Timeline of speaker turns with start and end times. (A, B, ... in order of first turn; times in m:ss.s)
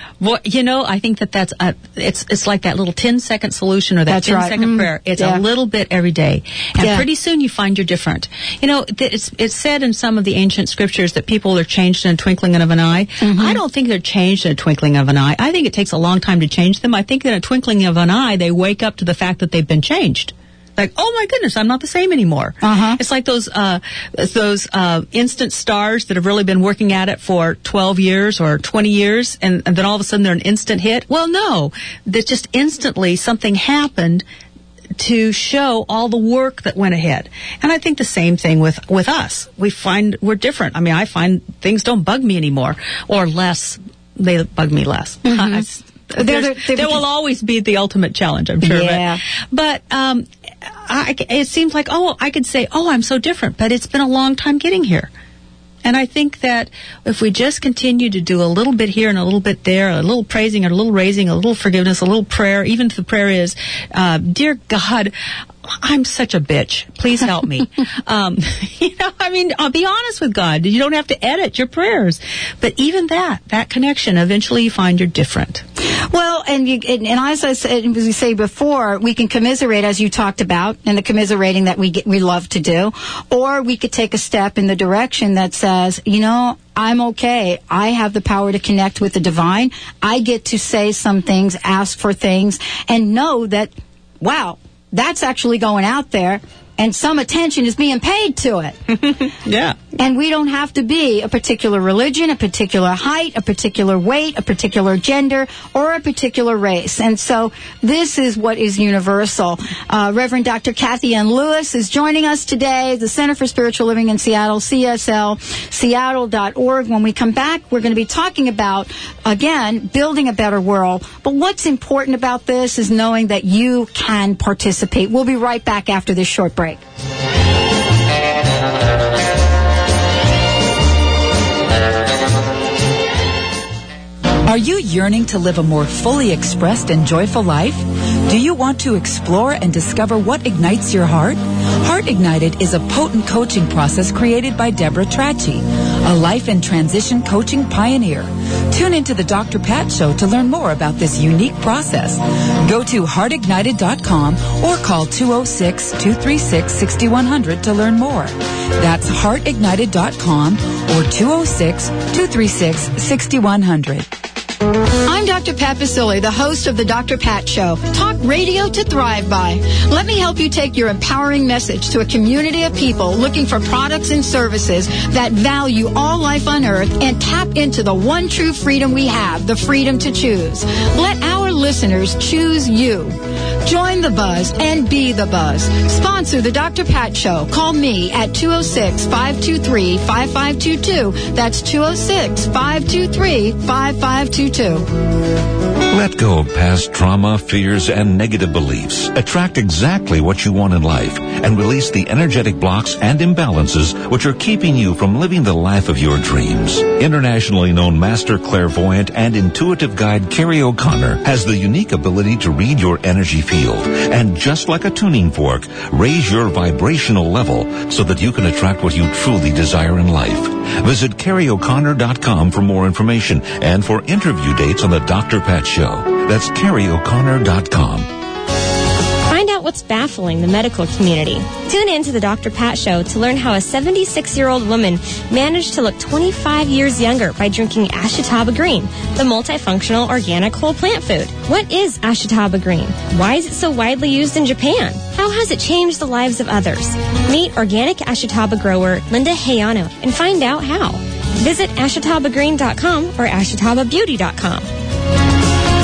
0:00.2-0:34.2 A
0:04.1-0:05.4 B
0:06.8-0:07.0 B
0:13.2-0:13.6 B
0:22.6-0:23.0 B
0:35.0-0:50.3 A
0:45.2-0:47.0 B
0:48.6-0:49.2 B
0:50.8-0:55.1 A
0:55.8-1:05.1 A
1:05.7-1:15.6 A
1:16.1-1:38.8 B
1:38.9-1:39.8 A
1:40.0-2:06.8 B
2:14.5-2:44.1 C
2:45.0-3:14.9 B
3:15.9-3:48.1 D
3:49.3-4:14.7 E